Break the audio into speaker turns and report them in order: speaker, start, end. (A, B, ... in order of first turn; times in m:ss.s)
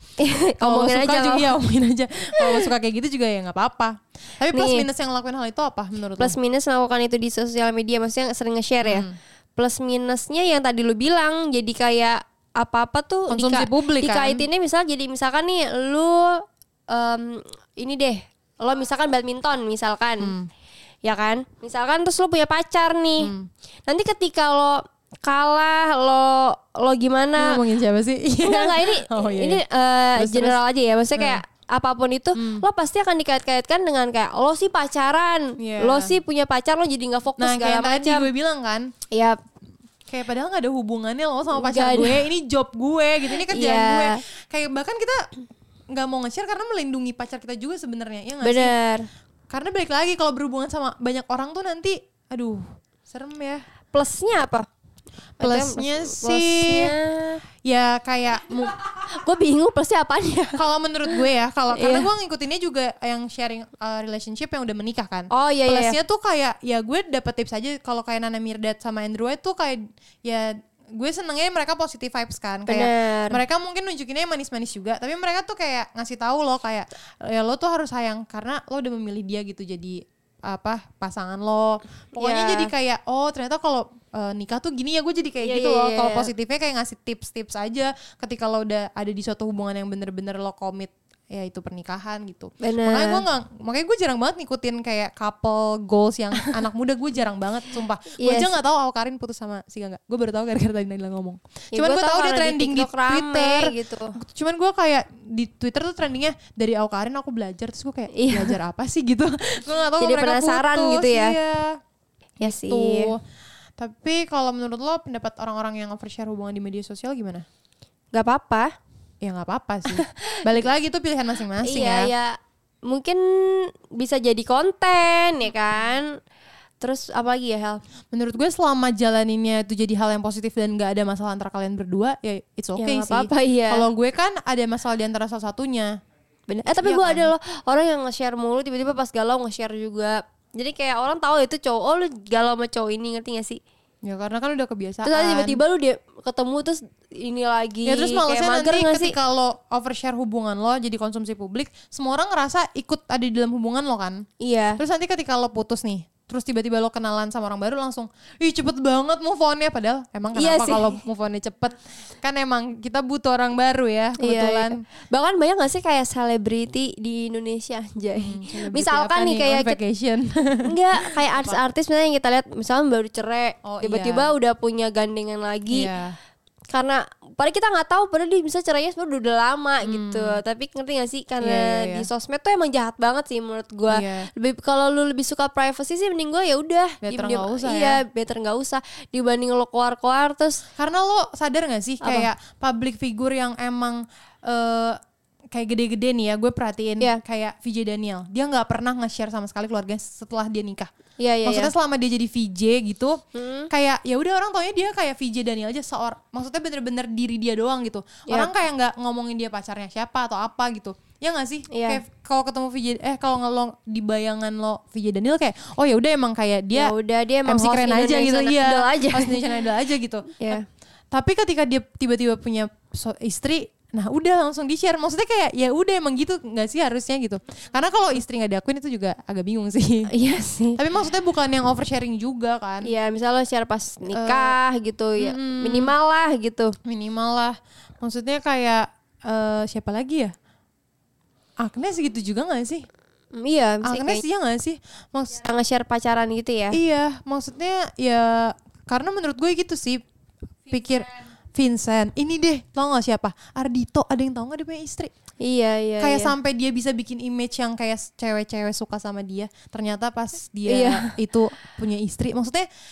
0:00.2-0:01.5 A
0:00.6-0:06.4 B
0:02.4-0:02.7 A
0:04.5-0:04.9 A
0:06.2-0:20.3 A
0:08.8-0:09.2 B
0:13.3-0:14.4 B
0:20.2-0:20.5 B
0:21.0-0:23.3 A
0:23.2-0:23.5 B
0:23.9-0:27.6 A
0:27.4-0:29.6 B
0:28.4-0:38.3 A
0:30.2-0:30.6 B
0:31.2-0:31.4 B
0:32.4-0:32.6 B
0:35.6-0:36.2 B
0:37.4-0:38.9 B
0:39.1-0:39.4 A
0:40.1-0:45.2 B
0:41.5-0:42.2 A
0:43.5-0:44.2 A
0:45.9-0:48.7 B
0:48.4-0:49.1 A
0:49.5-0:53.6 B
0:53.9-0:54.7 A
0:55.4-0:57.4 A
0:55.4-0:56.9 B
0:57.6-0:58.8 B
0:59.0-1:02.1 A
1:00.6-1:51.8 B
1:05.3-1:06.0 A
1:12.7-1:13.4 A
1:22.2-1:22.7 A
1:25.4-1:26.3 A
1:32.6-1:33.2 A
1:38.2-1:38.5 A
1:41.7-1:44.1 A
1:48.1-1:48.6 A
1:50.0-1:51.4 A
1:52.4-1:53.1 A
1:52.4-1:53.2 B
1:53.8-1:57.4 B
1:58.1-1:58.7 A
1:59.2-2:02.1 B
2:01.6-2:06.2 A
2:06.8-2:07.8 A
2:08.1-2:16.0 B
2:12.8-2:13.9 A
2:16.5-2:23.6 A
2:16.6-2:17.3 B
2:24.0-2:25.6 B
2:25.0-2:29.2 A
2:27.8-2:34.2 B
2:34.4-2:34.8 A
2:34.8-2:44.8 B
2:40.3-2:41.0 A
2:44.2-2:49.8 A
2:48.2-2:51.6 B
2:50.7-2:55.9 A
2:53.6-2:54.3 B
2:55.7-2:56.2 B
2:56.7-3:10.6 A
2:59.8-3:00.4 B
3:01.4-3:02.1 B
3:03.9-3:04.3 B
3:07.0-3:08.0 B
3:10.8-3:15.0 B
3:12.0-3:12.3 A
3:15.5-3:20.9 B
3:21.2-3:21.7 A
3:21.4-3:23.2 B
3:23.4-3:23.7 A
3:23.7-3:36.9 B
3:31.7-3:32.0 A
3:36.7-3:39.5 A
3:37.4-3:50.1 B
3:50.1-3:50.8 A
3:50.8-3:52.9 B
3:52.8-3:56.8 A
3:54.1-3:54.6 B
3:55.2-3:55.9 B
3:56.8-4:00.3 B
4:01.6-4:02.8 B
4:03.3-4:04.2 A
4:03.8-4:05.4 B
4:05.4-4:06.8 A
4:06.7-4:10.0 B
4:10.7-4:15.1 B
4:15.4-4:16.4 A
4:16.0-4:22.6 B
4:20.7-4:21.1 A